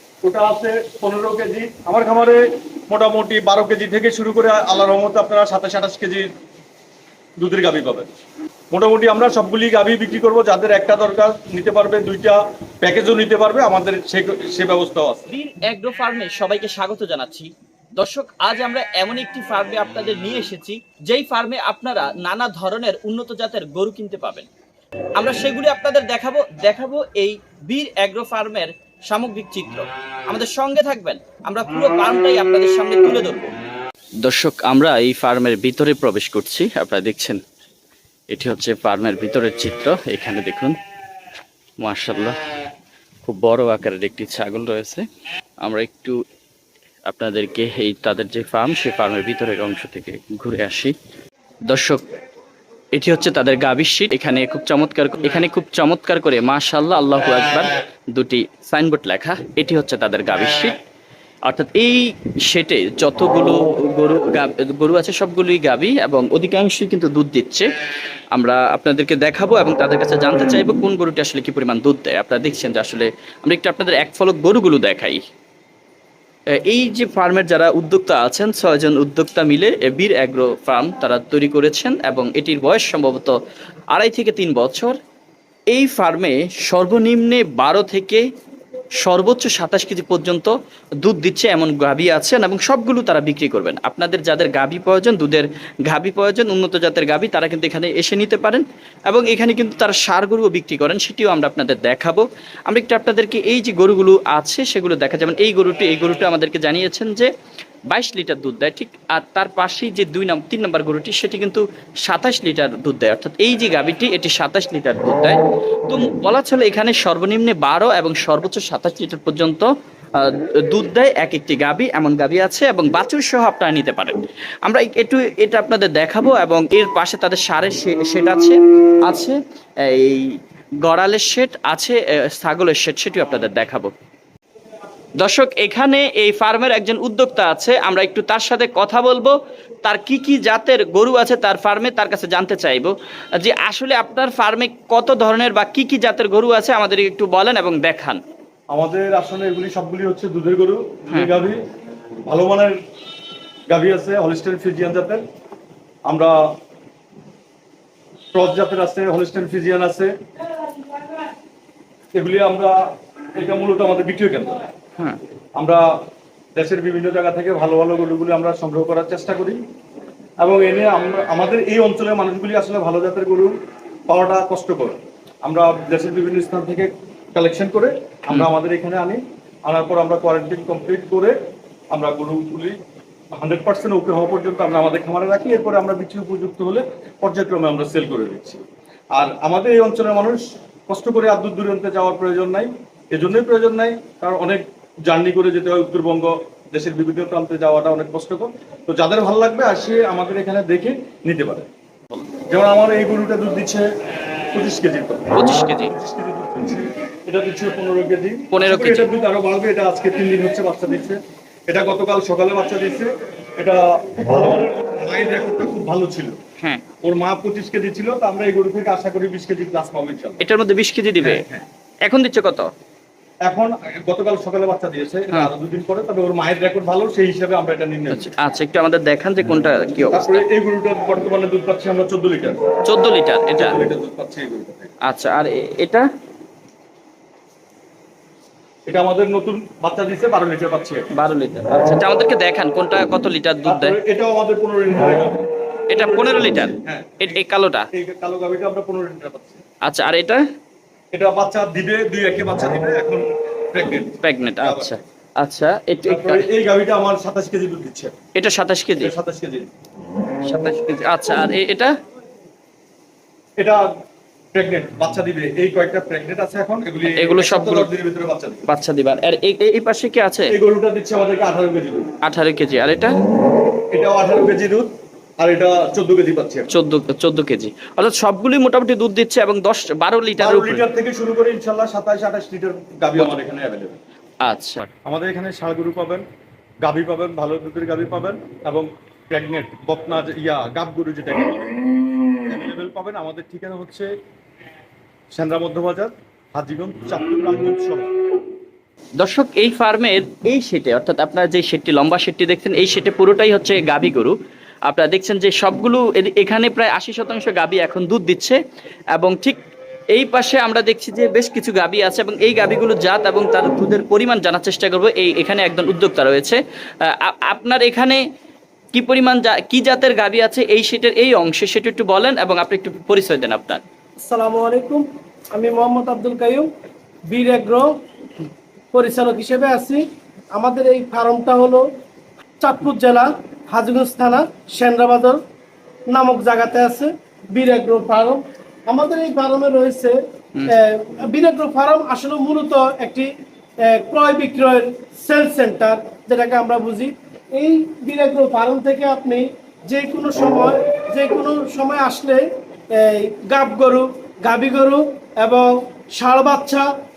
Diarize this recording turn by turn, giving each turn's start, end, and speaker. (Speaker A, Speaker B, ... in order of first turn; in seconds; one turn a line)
Speaker A: 0.2-6.3
Speaker A: 7.4-8.1
Speaker A: 8.7-15.3
Speaker B: 15.3-24.5
Speaker B: 25.2-33.5
Speaker B: 34.2-37.4
Speaker B: 38.3-40.8
Speaker B: 41.8-42.4
Speaker B: 43.2-45.0
Speaker B: 45.6-46.2
Speaker B: 47.1-50.9
Speaker B: 51.7-52.0
Speaker B: 52.9-60.8
Speaker B: 61.5-67.7
Speaker B: 68.3-75.2
Speaker B: 76.6-83.3
Speaker B: 83.9-85.0
Speaker B: 85.7-88.2
Speaker B: 89.0-107.3
Speaker B: 107.9-124.2
Speaker B: 124.7-130.3
Speaker B: 130.8-133.9
Speaker B: 135.2-148.2
Speaker A: 148.7-151.6
Speaker A: 152.3-152.8
Speaker A: 153.7-155.2
Speaker A: 156.1-156.3
Speaker A: 158.3-160.1
Speaker A: 162.2-162.8
Speaker A: 163.4-164.6
Speaker A: 165.6-165.8
Speaker A: 166.6-169.6
Speaker A: 170.4-173.5
Speaker A: 174.1-181.3
Speaker A: 181.9-182.8
Speaker A: 183.3-188.6
Speaker A: 189.2-201.7
Speaker A: 202.5-203.9
Speaker A: 204.5-216.4
Speaker B: 205.3-205.9
Speaker B: 208.5-209.1
Speaker A: 217.0-220.4
Speaker B: 220.4-221.4
Speaker A: 221.2-221.7
Speaker B: 222.1-222.7
Speaker A: 223.5-228.3
Speaker B: 228.1-230.5
Speaker A: 230.1-232.7
Speaker B: 232.8-233.8
Speaker A: 233.6-234.9
Speaker B: 235.1-236.1
Speaker A: 238.9-241.1
Speaker B: 241.2-243.9
Speaker A: 243.7-247.4
Speaker B: 245.9-247.9
Speaker A: 247.9-249.6
Speaker B: 249.8-250.4
Speaker A: 251.1-255.0
Speaker B: 254.2-256.5
Speaker A: 256.1-258.1
Speaker B: 258.4-259.1
Speaker A: 259.0-259.7
Speaker B: 260.4-261.9
Speaker A: 263.6-263.9
Speaker A: 264.5-268.7
Speaker B: 267.1-267.9
Speaker B: 268.7-270.5
Speaker A: 270.5-272.1
Speaker B: 272.2-273.1
Speaker A: 273.9-276.7
Speaker B: 276.7-280.9
Speaker A: 280.4-284.0
Speaker B: 284.4-284.9
Speaker A: 285.1-286.2
Speaker A: 286.8-291.7
Speaker A: 292.5-294.1
Speaker A: 295.3-298.1
Speaker B: 299.2-304.4
Speaker B: 304.9-308.6
Speaker B: 309.1-309.6
Speaker B: 310.1-318.2
Speaker B: 318.9-323.8
Speaker C: 324.2-326.7
Speaker C: 327.3-327.9
Speaker C: 328.9-331.9
Speaker C: 332.6-335.4
Speaker C: 336.1-343.3
Speaker C: 343.8-356.9